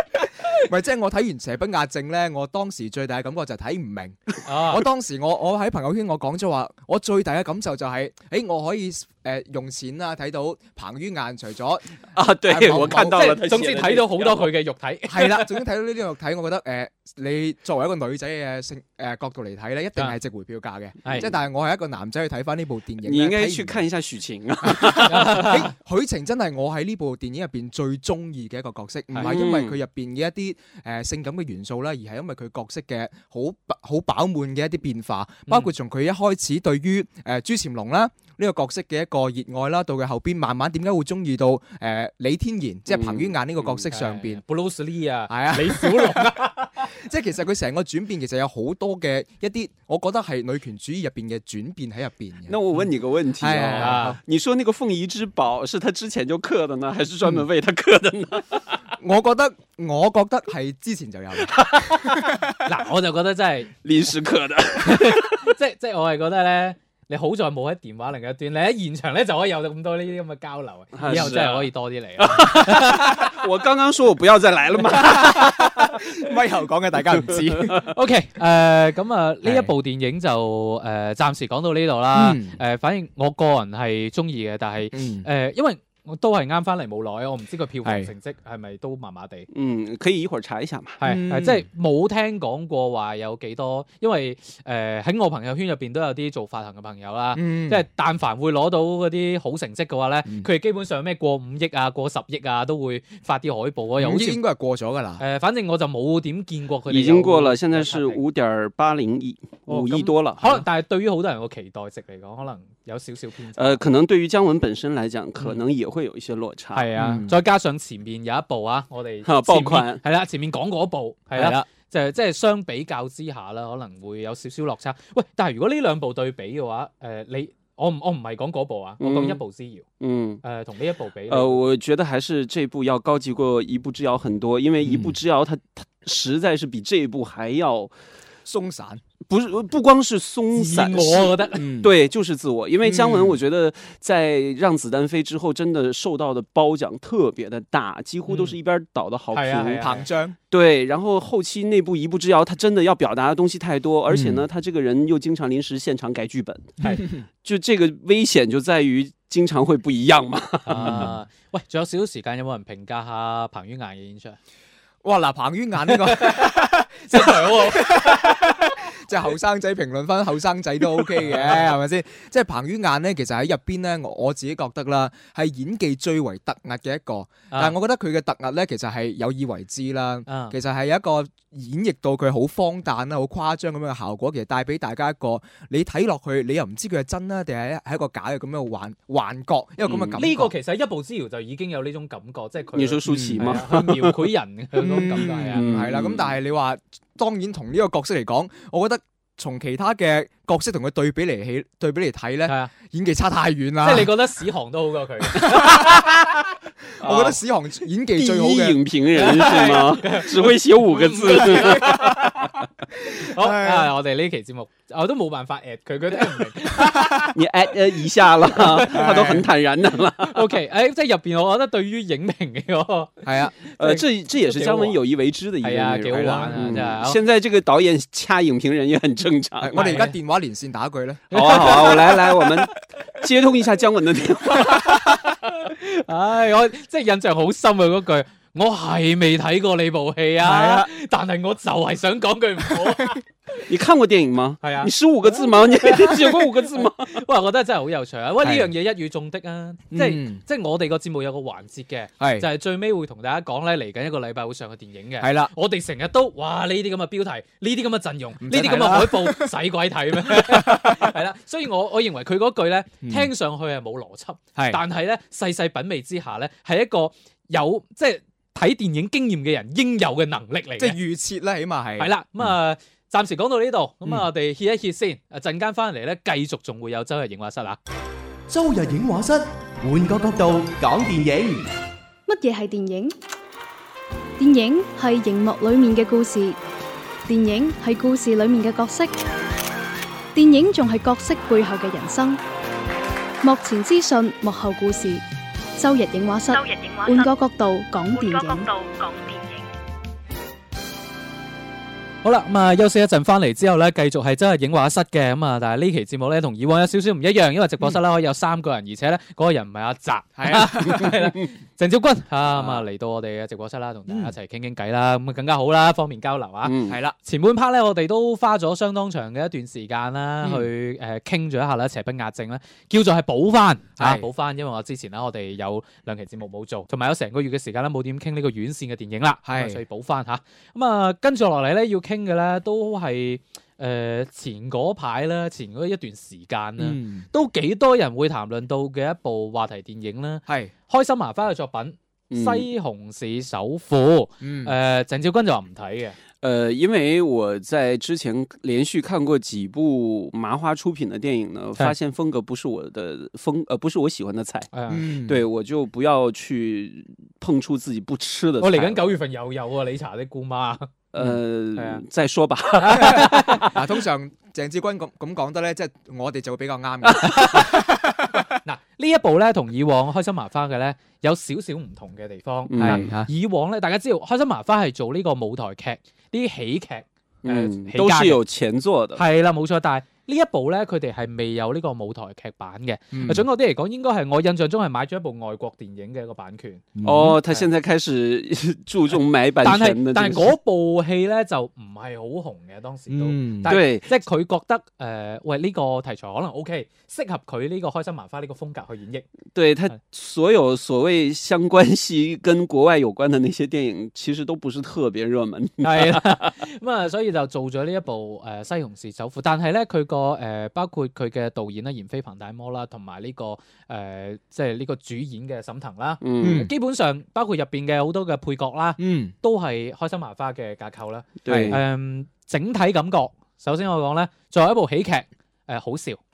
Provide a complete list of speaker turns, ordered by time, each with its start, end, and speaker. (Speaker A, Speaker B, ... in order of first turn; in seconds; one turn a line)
Speaker A: 0.6-13.3
Speaker B: 4.5-4.8
Speaker C: 12.2-14.5
Speaker B: 12.8-15.6
Speaker A: 15.1-23.8
Speaker C: 23.0-25.6
Speaker A: 24.6-44.4
Speaker B: 25.1-25.7
Speaker B: 29.1-29.4
Speaker C: 29.2-29.8
Speaker B: 35.5-35.7
Speaker C: 42.9-43.9
Speaker B: 43.9-46.9
Speaker A: 45.3-46.3
Speaker A: 46.9-52.6
Speaker C: 52.5-58.6
Speaker A: 53.4-54.2
Speaker B: 53.7-54.2
Speaker A: 59.0-62.5
Speaker B: 61.7-63.8
Speaker C: 63.8-65.5
Speaker B: 64.8-73.4
Speaker C: 71.0-76.0
Speaker A: 74.9-77.9
Speaker C: 77.1-77.9
Speaker B: 77.9-89.5
Speaker A: 79.4-79.7
Speaker A: 82.1-82.6
Speaker A: 84.9-85.3
Speaker A: 87.8-88.1
Speaker C: 89.5-91.0
Speaker B: 91.0-104.4
Speaker A: 91.0-91.7
Speaker A: 97.3-97.8
Speaker A: 104.0-105.2
Speaker B: 105.2-108.2
Speaker C: 106.9-110.6
Speaker B: 109.7-113.8
Speaker C: 113.6-116.9
Speaker B: 116.7-129.8
Speaker A: 117.0-117.3
Speaker C: 119.2-120.0
Speaker A: 121.3-121.7
Speaker C: 129.0-129.4
Speaker C: 130.0-130.4
Speaker B: 130.4-131.6
Speaker C: 131.3-137.9
Speaker A: 134.8-135.2
Speaker A: 138.4-139.0
Speaker C: 139.3-149.8
Speaker B: 140.5-141.7
Speaker A: 141.6-141.9
Speaker A: 142.8-143.4
Speaker B: 148.3-148.6
Speaker B: 149.3-150.1
Speaker A: 149.8-150.4
Speaker C: 150.5-161.1
Speaker A: 154.1-154.5
Speaker A: 156.8-157.2
Speaker B: 156.8-157.1
Speaker B: 160.7-164.4
Speaker A: 160.7-161.2
Speaker A: 165.0-190.5
Speaker B: 165.9-168.8
Speaker B: 171.2-171.7
Speaker B: 177.5-177.8
Speaker B: 180.3-180.6
Speaker C: 189.8-190.2
Speaker B: 190.2-195.7
Speaker C: 192.7-194.2
Speaker A: 193.1-193.6
Speaker A: 194.8-204.1
Speaker C: 194.9-196.3
Speaker B: 202.5-202.7
Speaker B: 203.8-206.4
Speaker A: 205.3-206.1
Speaker C: 207.0-207.4
Speaker A: 207.0-208.8
Speaker C: 208.1-212.5
Speaker B: 209.2-217.4
Speaker A: 211.6-212.4
Speaker A: 213.2-213.9
Speaker A: 216.8-217.3
Speaker C: 217.3-220.4
Speaker B: 218.5-219.4
Speaker A: 218.8-219.4
Speaker B: 220.2-225.0
Speaker A: 223.2-223.6
Speaker C: 223.8-230.0
Speaker B: 225.6-227.2
Speaker A: 226.1-226.9
Speaker A: 229.6-232.1
Speaker B: 229.8-230.2
Speaker B: 231.3-232.7
Speaker C: 231.3-235.1
Speaker B: 234.5-243.6
Speaker A: 240.4-240.9
Speaker C: 243.7-247.2
Speaker B: 244.6-271.0
Speaker A: 248.4-248.7
Speaker A: 249.9-250.4
Speaker A: 252.2-252.5
Speaker A: 255.2-255.5
Speaker A: 258.4-259.5
Speaker A: 260.1-261.1
Speaker A: 263.0-263.3
Speaker A: 270.8-272.5
Speaker B: 272.0-277.8
Speaker D: 278.5-281.7
Speaker E: 282.3-283.1
Speaker E: 284.4-286.6
Speaker E: 287.3-289.2
Speaker E: 290.3-292.4
Speaker E: 293.4-295.2
Speaker E: 295.8-298.7
Speaker F: 296.5-297.3
Speaker F: 298.1-299.7
Speaker B: 302.2-346.2
Speaker A: 310.4-311.2
Speaker C: 312.5-312.8
Speaker C: 316.6-317.0
Speaker A: 316.9-317.2
Speaker A: 320.4-320.7
Speaker A: 324.0-324.2
Speaker A: 329.5-329.8
Speaker A: 336.8-337.3
Speaker A: 340.5-340.7
Speaker C: 342.3-342.7
Speaker A: 344.4-344.8
Speaker C: 346.4-354.7
Speaker B: 354.7-355.1
Speaker A: 354.9-355.4
Speaker C: 355.3-359.1
Speaker B: 358.6-360.9
Speaker C: 361.1-363.7
Speaker B: 361.8-362.0
Speaker B: 362.8-363.8
Speaker A: 363.6-368.5
Speaker B: 367.2-367.9
Speaker B: 368.4-378.4
Speaker C: 372.7-373.1
Speaker A: 372.8-373.3
Speaker C: 377.4-379.2
Speaker B: 379.2-386.9
Speaker A: 383.1-383.5
Speaker A: 387.0-387.4
Speaker C: 387.0-390.6
Speaker B: 387.4-387.7
Speaker B: 389.6-399.3
Speaker A: 393.1-393.8
Speaker C: 393.6-394.1
Speaker C: 399.6-406.4
Speaker B: 405.8-426.2
Speaker C: 416.2-416.6
Speaker A: 416.4-416.7
Speaker A: 419.0-419.3
Speaker C: 421.4-421.8
Speaker A: 421.5-421.8